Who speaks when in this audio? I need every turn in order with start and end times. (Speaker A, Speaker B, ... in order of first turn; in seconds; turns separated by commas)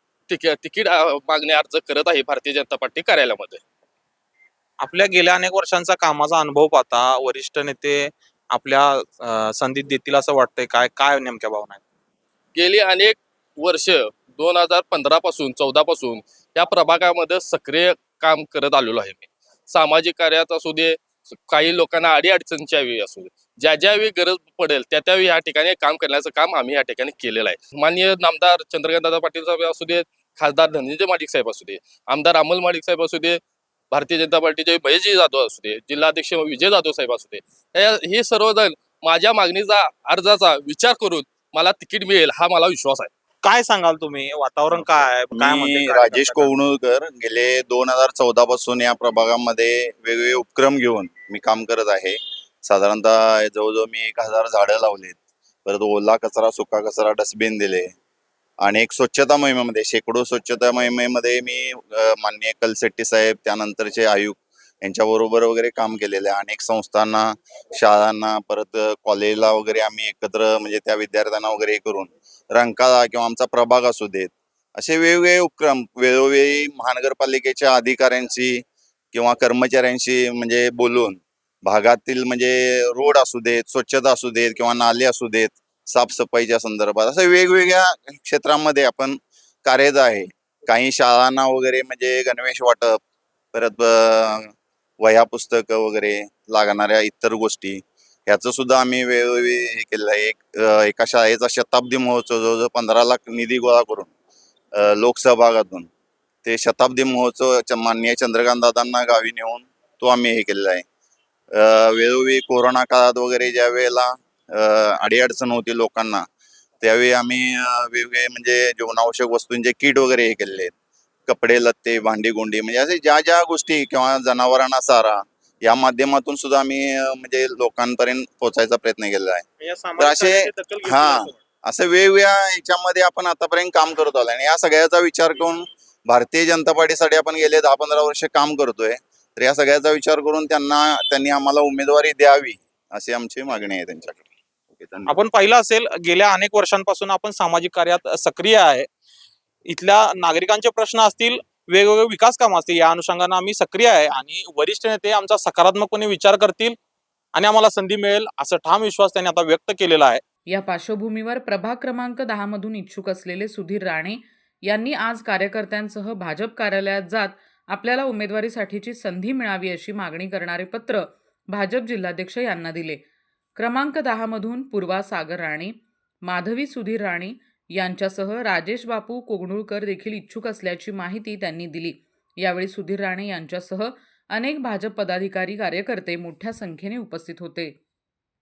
Speaker A: 0.3-3.6, Speaker B: 4.8-11.8, Speaker A: 12.5-33.4, Speaker A: 33.9-43.1, Speaker B: 43.4-46.5, Speaker C: 44.8-57.9, Speaker C: 58.6-78.6, Speaker C: 79.1-93.0, Speaker C: 93.5-104.1, Speaker C: 104.8-105.9, Speaker C: 106.4-110.8, Speaker C: 111.5-116.2, Speaker C: 116.8-120.7, Speaker C: 121.3-129.4, Speaker B: 129.6-131.3, Speaker C: 130.0-145.1, Speaker B: 145.1-148.9, Speaker B: 149.7-156.8, Speaker B: 157.3-160.2, Speaker D: 160.5-173.0, Speaker D: 173.6-187.8